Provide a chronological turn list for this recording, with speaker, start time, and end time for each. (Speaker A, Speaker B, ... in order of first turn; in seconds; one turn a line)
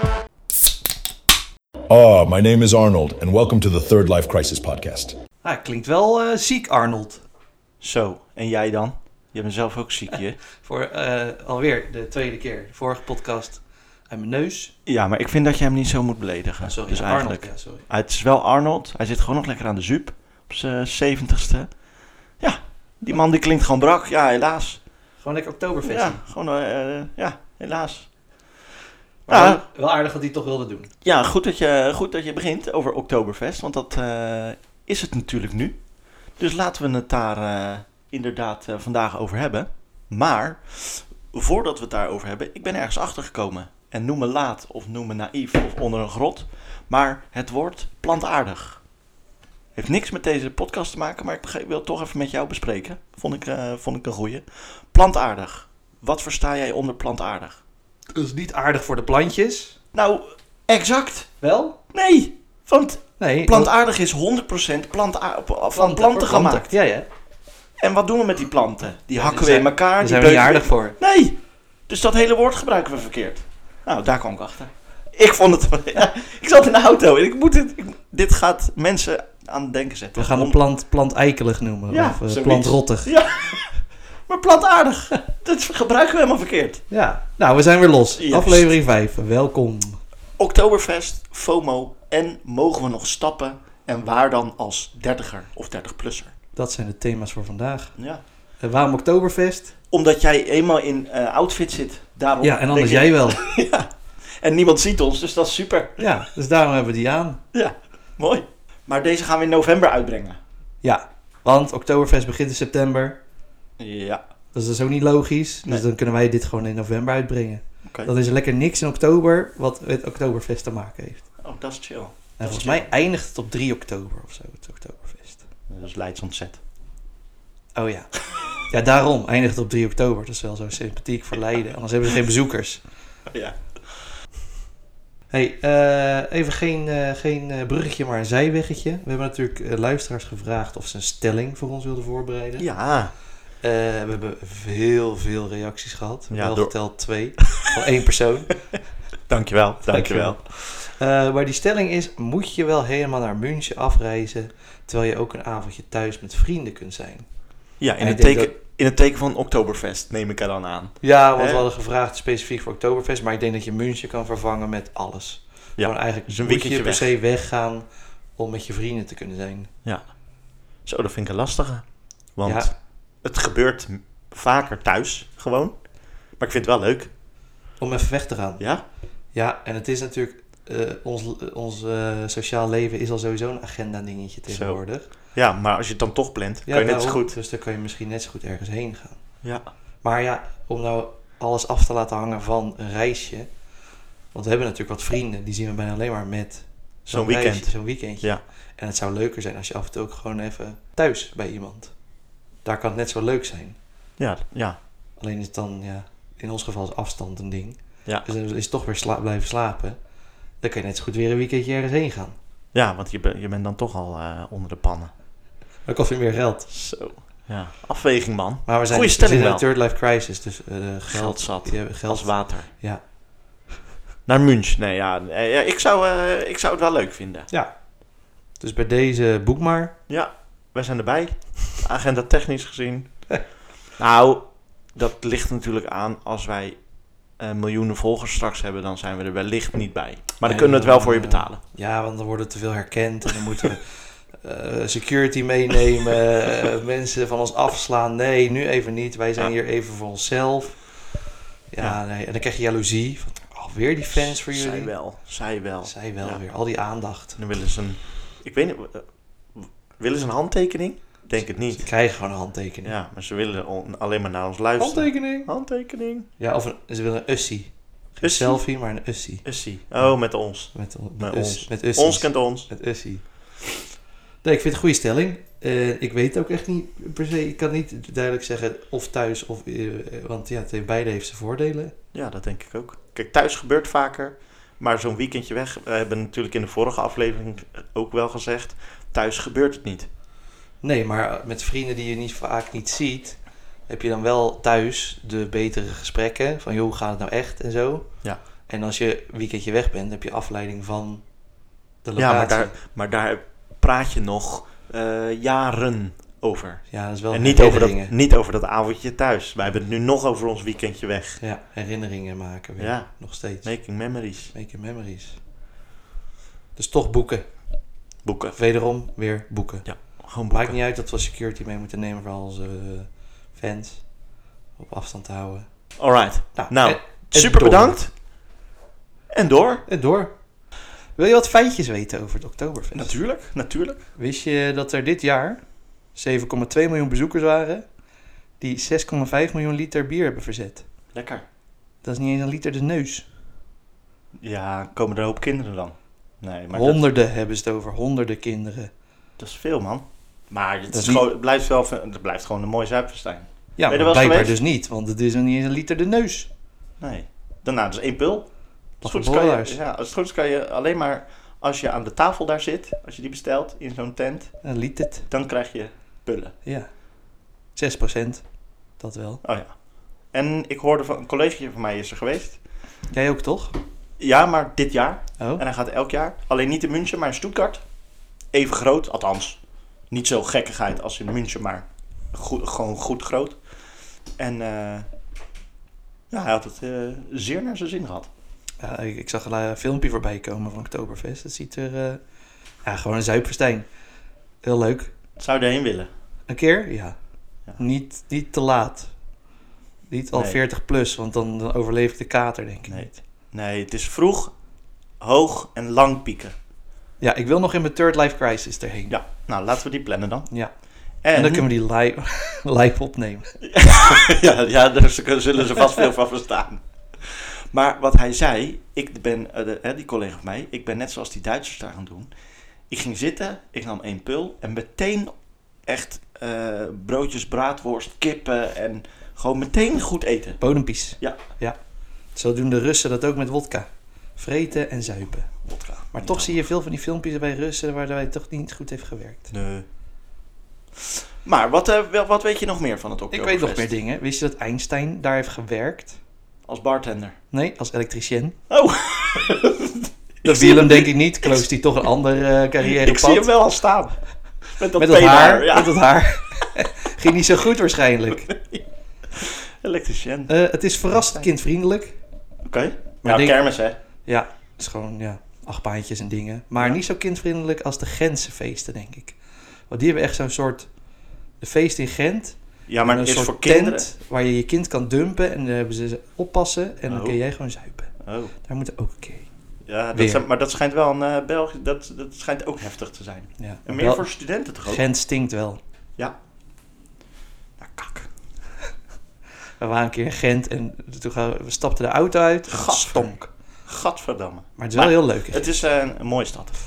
Speaker A: 1.9-5.2
Speaker B: 5.4-7.2
Speaker C: 7.8-10.4
Speaker B: 10.6-14.7
Speaker C: 14.8-21.7
Speaker B: 16.6-17.8
Speaker C: 22.4-24.8
Speaker B: 25.2-26.2
Speaker C: 25.8-28.1
Speaker B: 29.3-30.9
Speaker C: 29.3-29.6
Speaker C: 31.0-35.8
Speaker C: 36.4-48.8
Speaker C: 49.8-57.6
Speaker B: 58.1-59.8
Speaker C: 59.9-61.3
Speaker B: 61.4-61.8
Speaker C: 61.9-66.7
Speaker B: 63.2-63.7
Speaker B: 65.7-67.1
Speaker C: 67.8-71.4
Speaker B: 69.2-71.0
Speaker C: 71.9-80.6
Speaker B: 80.2-83.1
Speaker C: 81.9-86.8
Speaker B: 86.9-90.0
Speaker C: 88.2-88.7
Speaker C: 90.4-96.3
Speaker B: 96.5-97.9
Speaker C: 98.0-98.2
Speaker B: 98.6-99.7
Speaker C: 99.9-106.0
Speaker B: 102.4-103.4
Speaker B: 106.0-107.4
Speaker C: 107.5-110.4
Speaker B: 110.8-113.2
Speaker C: 113.8-114.2
Speaker B: 114.5-121.2
Speaker C: 117.8-118.1
Speaker C: 121.4-122.9
Speaker B: 122.4-125.4
Speaker C: 125.7-126.6
Speaker B: 127.8-128.1
Speaker B: 128.7-132.8
Speaker C: 133.3-133.9
Speaker B: 135.3-142.7
Speaker C: 142.6-143.1
Speaker B: 143.6-148.6
Speaker C: 146.3-146.7
Speaker C: 149.3-150.4
Speaker B: 149.9-157.3
Speaker C: 157.8-161.7
Speaker B: 158.0-158.5
Speaker B: 161.0-167.8
Speaker C: 165.8-167.1
Speaker B: 168.4-169.7
Speaker C: 170.8-175.8
Speaker B: 172.4-172.7
Speaker C: 176.4-177.1
Speaker B: 177.8-178.6
Speaker B: 179.3-185.1
Speaker C: 184.5-184.8
Speaker C: 185.3-187.3
Speaker B: 186.7-189.2
Speaker B: 190.0-193.5
Speaker B: 194.3-201.9
Speaker C: 197.1-198.4
Speaker B: 202.6-203.8
Speaker C: 204.2-204.8
Speaker B: 205.2-210.0
Speaker B: 210.6-212.3
Speaker C: 212.7-215.1
Speaker B: 215.8-216.7
Speaker C: 216.7-219.6
Speaker B: 218.7-223.0
Speaker C: 221.1-222.7
Speaker C: 224.2-227.5
Speaker B: 228.6-229.9
Speaker C: 230.1-233.3
Speaker C: 233.9-236.8
Speaker C: 237.4-241.6
Speaker B: 240.4-250.8
Speaker B: 251.7-254.9
Speaker C: 254.1-256.4
Speaker B: 255.8-257.4
Speaker C: 257.4-261.9
Speaker B: 261.7-262.9
Speaker C: 262.8-266.3
Speaker B: 264.8-265.5
Speaker B: 266.4-269.4
Speaker C: 268.2-268.6
Speaker C: 269.4-272.7
Speaker B: 270.7-273.2
Speaker B: 274.4-281.9
Speaker C: 282.1-290.1
Speaker B: 290.8-298.1
Speaker B: 298.7-301.2
Speaker B: 302.0-302.7
Speaker C: 302.2-311.4
Speaker B: 306.9-308.1
Speaker B: 311.4-313.7
Speaker C: 312.8-313.1
Speaker C: 313.6-314.5
Speaker B: 314.5-315.4
Speaker B: 316.8-317.4
Speaker C: 318.2-318.6
Speaker B: 318.6-319.9
Speaker C: 319.8-320.8
Speaker B: 320.5-324.0
Speaker B: 324.8-325.6
Speaker C: 326.0-328.1
Speaker B: 326.5-328.0
Speaker C: 329.3-329.8
Speaker B: 329.9-330.3
Speaker B: 331.1-333.1
Speaker C: 332.9-334.0
Speaker B: 334.1-335.6
Speaker B: 336.1-337.8
Speaker B: 338.6-340.9
Speaker C: 341.1-341.4
Speaker B: 342.0-343.2
Speaker C: 344.4-347.0
Speaker B: 346.7-348.9
Speaker C: 349.4-354.6
Speaker B: 350.9-351.2
Speaker B: 353.8-356.5
Speaker C: 357.0-358.5
Speaker C: 359.0-364.5
Speaker B: 359.0-359.8
Speaker B: 364.6-365.3
Speaker C: 365.3-366.5
Speaker B: 367.8-368.4
Speaker B: 369.0-369.4
Speaker C: 369.4-369.7
Speaker C: 370.3-372.6
Speaker B: 373.1-373.7
Speaker C: 374.2-377.8
Speaker C: 378.5-379.6
Speaker C: 380.1-383.6
Speaker C: 384.4-385.1
Speaker C: 386.3-388.3
Speaker B: 388.8-392.2
Speaker B: 392.8-393.8
Speaker B: 394.6-395.1
Speaker C: 395.4-396.1
Speaker B: 396.5-397.1
Speaker B: 397.8-399.1
Speaker B: 400.1-403.1
Speaker C: 400.3-400.6
Speaker C: 402.9-404.5
Speaker C: 405.2-406.5
Speaker B: 407.2-409.1
Speaker C: 409.1-410.5
Speaker C: 411.2-411.7
Speaker B: 411.3-413.6
Speaker C: 413.6-422.3
Speaker C: 422.9-425.3
Speaker C: 425.9-430.6
Speaker B: 430.6-431.8
Speaker B: 432.3-435.5
Speaker C: 435.6-436.6
Speaker B: 436.1-439.5
Speaker C: 439.5-439.9
Speaker C: 441.4-443.9
Speaker B: 443.3-446.2
Speaker C: 446.7-447.4
Speaker B: 447.5-448.6
Speaker C: 448.7-451.7
Speaker B: 450.4-453.5
Speaker C: 452.8-456.0
Speaker B: 454.9-458.5
Speaker C: 458.4-460.5
Speaker B: 460.5-462.2
Speaker C: 461.1-461.4
Speaker C: 462.6-463.9
Speaker B: 463.2-463.6
Speaker B: 464.2-469.4
Speaker B: 469.9-470.9
Speaker B: 471.6-479.5
Speaker C: 472.9-474.1
Speaker C: 477.1-477.4
Speaker C: 478.2-478.5
Speaker C: 479.9-485.0
Speaker B: 480.1-480.4
Speaker B: 483.6-484.2
Speaker B: 484.9-485.8
Speaker C: 487.8-488.3
Speaker B: 489.8-493.5
Speaker C: 492.7-493.3
Speaker C: 493.9-496.8
Speaker B: 494.8-495.7